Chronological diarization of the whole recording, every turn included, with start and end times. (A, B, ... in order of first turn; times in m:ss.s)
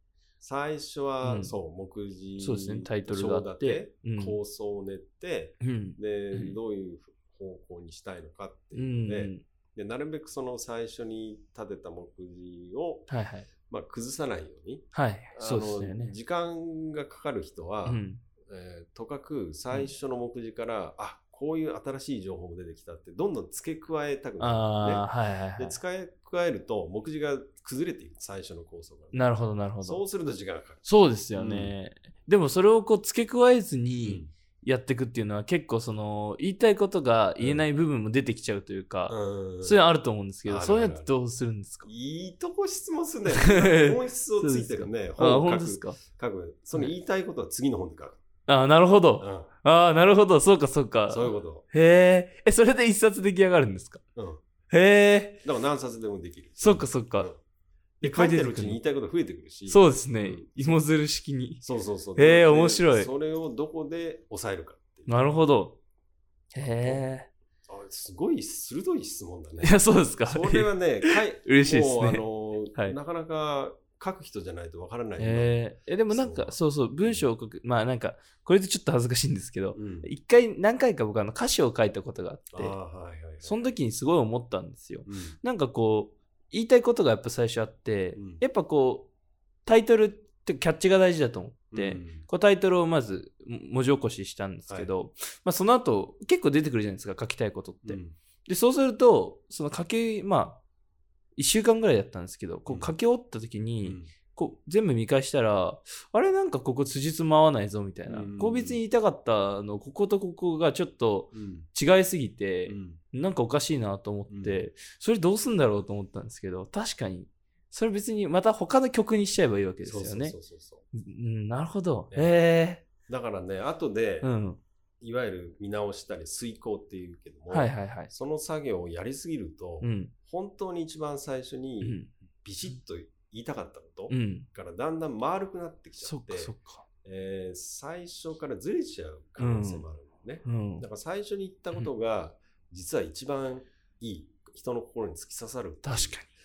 0:00.4-0:13.1 A
0:01.2-0:01.5 B
0:02.4-0:04.4 B
0:05.6-0:06.6 B
0:08.8-0:09.4 B
0:13.1-0:13.5 B
0:13.7-0:31.8 A
0:14.9-0:16.2 B
0:17.9-0:18.2 B
0:24.4-0:25.8 B
0:29.1-0:30.0 B
0:30.8-0:41.9 B
0:34.0-0:34.3 A
0:37.4-0:37.6 A
0:39.1-0:39.8 A
0:40.5-0:41.1 A
0:41.8-0:48.2 A
0:43.4-0:46.0 B
0:48.5-0:54.0 B
0:49.2-0:49.5 A
0:51.1-0:51.7 A
0:54.2-0:54.4 A
0:54.7-0:55.4 B
0:55.4-0:57.4 A
0:56.6-0:57.3 B
0:58.0-0:58.8 B
0:58.0-1:00.8 A
0:59.7-1:01.6 B
1:01.6-1:05.2 A
1:02.2-1:03.1 B
1:05.1-1:05.8 B
1:06.5-1:07.3 B
1:07.7-1:17.2 A
1:09.6-1:12.2 B
1:15.2-1:22.8 B
1:19.8-1:20.1 A
1:22.5-1:23.6 A
1:23.4-1:29.1 B
1:25.1-1:25.4 A
1:28.2-1:28.4 A
1:29.7-1:40.6 B
1:31.7-1:32.3 A
1:37.8-1:38.2 A
1:41.4-2:00.4 B
1:42.7-1:42.9 A
1:43.8-1:44.1 A
1:48.1-1:48.8 A
1:51.3-1:51.7 A
1:52.7-1:53.0 A
1:54.3-1:54.6 A
1:59.8-2:00.8 A
2:00.9-2:02.8 B
2:03.1-2:04.3 A
2:04.2-2:04.6 B
2:05.0-2:26.2 A
2:07.5-2:08.1 B
2:09.8-2:10.1 B
2:11.8-2:12.1 B
2:14.1-2:14.5 B
2:16.0-2:16.9 B
2:19.4-2:19.9 B
2:20.4-2:20.8 B
2:25.8-2:26.3 B